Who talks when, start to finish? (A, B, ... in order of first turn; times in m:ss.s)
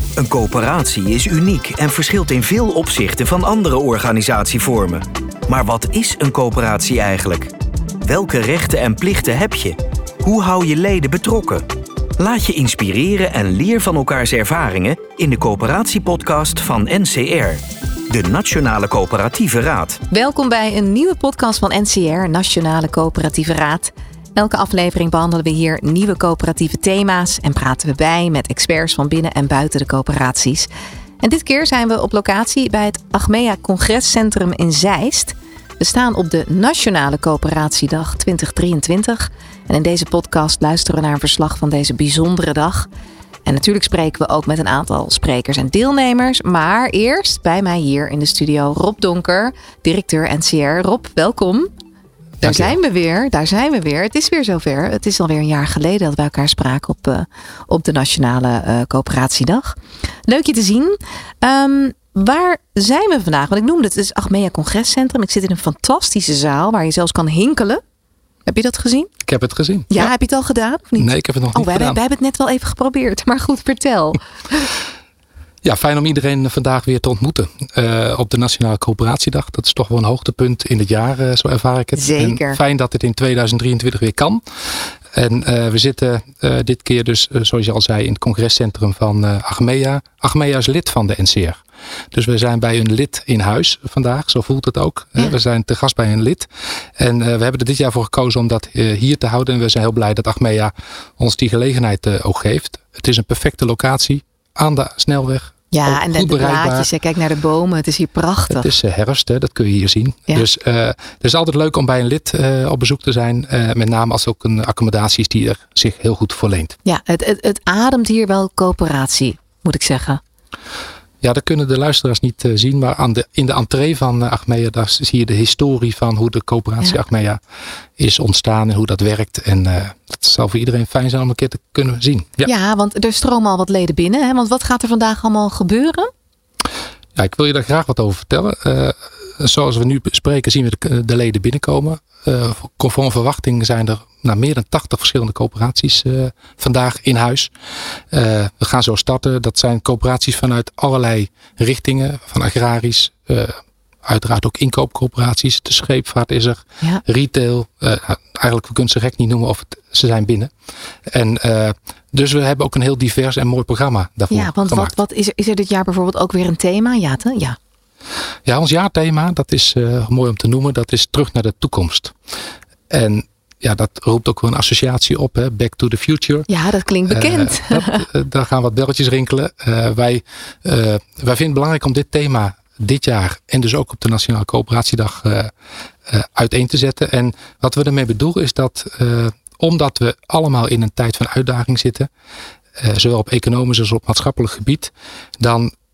0:00.2-0:11.6 A
0:12.2-0:20.0 A
0:20.1-0:30.7 B
0:31.2-0:42.9 B
0:43.5-0:51.7 B
0:52.4-1:07.8 B
1:08.5-1:09.1 B
1:09.2-1:10.1 C
1:09.9-1:14.7 B
1:11.0-1:12.0 C
1:15.6-1:24.4 C
1:22.0-1:22.6 B
1:25.1-1:31.6 C
1:32.1-1:46.9 C
1:45.7-1:48.7 B
1:48.5-1:56.8 C
1:56.8-2:00.2 B
2:01.2-2:07.4 C
2:08.0-2:12.5 C
2:12.4-2:16.1 B
2:17.2-2:27.5 C
2:28.1-2:40.5 C
2:41.1-2:45.0 C
2:44.3-2:47.6 B
2:48.4-2:52.2 C
2:52.9-2:56.5 C
2:56.5-2:58.1 B
2:57.1-3:05.5 C
3:06.1-3:12.1 C
3:12.8-3:15.7 C